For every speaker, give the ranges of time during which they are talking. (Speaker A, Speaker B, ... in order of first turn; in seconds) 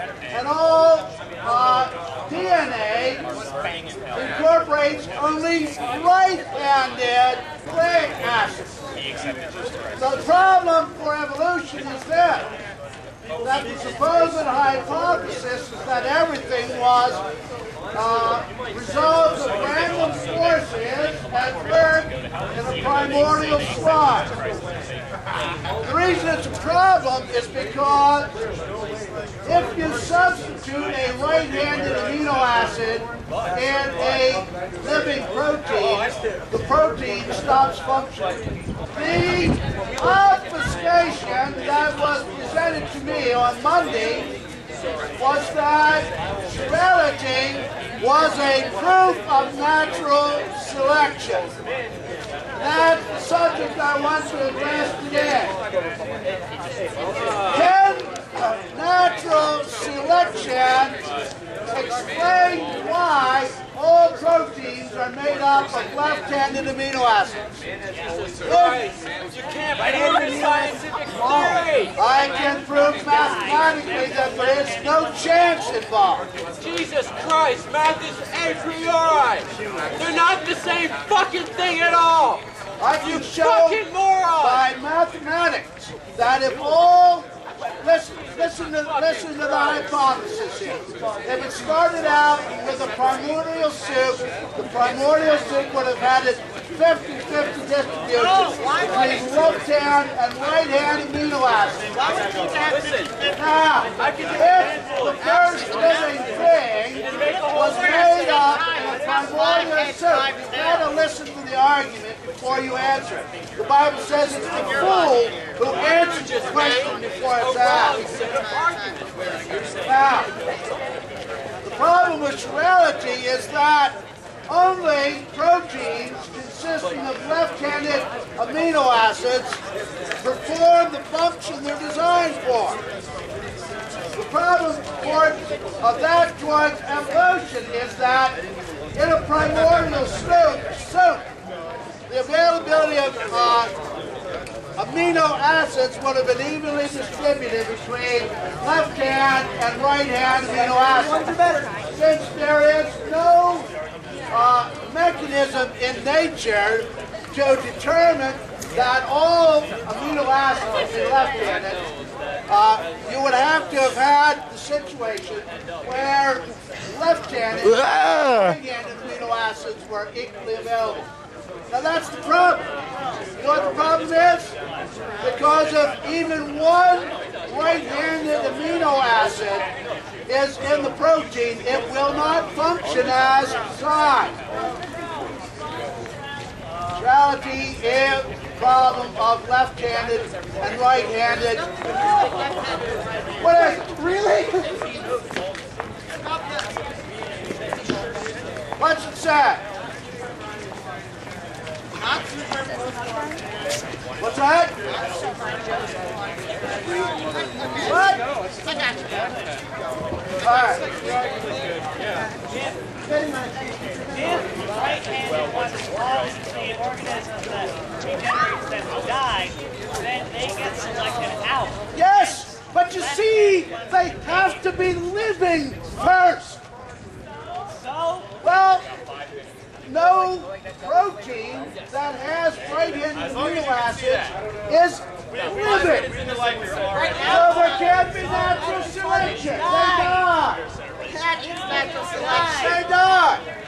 Speaker A: 0.3-3.2, 4.1-8.9, 10.0-12.5, 13.4-17.2, 17.9-24.3, 25.8-28.3, 29.4-38.4, 38.9-44.3, 45.1-51.5, 52.5-55.5, 57.5-61.0, 61.7-67.6, 68.4-68.9, 69.8-76.3, 82.8-102.2, 103.3-118.1, 119.8-120.3, 121.6-129.6, 130.2-132.8, 134.1-138.4, 138.9-141.2, 142.1-143.7, 144.8-153.7, 154.3-161.8, 162.5-171.1, 171.7-172.7, 173.4-174.6, 175.2-179.7, 180.3-184.4, 186.9-191.7, 193.4-194.2, 198.8-199.6, 204.2-204.8, 207.8-208.2, 210.4-210.9, 221.9-226.6, 228.4-228.9, 229.9-236.1, 237.1-240.6, 241.4-243.4
Speaker B: 68.3-71.9, 76.6-82.4, 83.2-84.5, 102.4-103.1, 117.9-119.2
Speaker C: 214.0-221.9, 227.6-228.3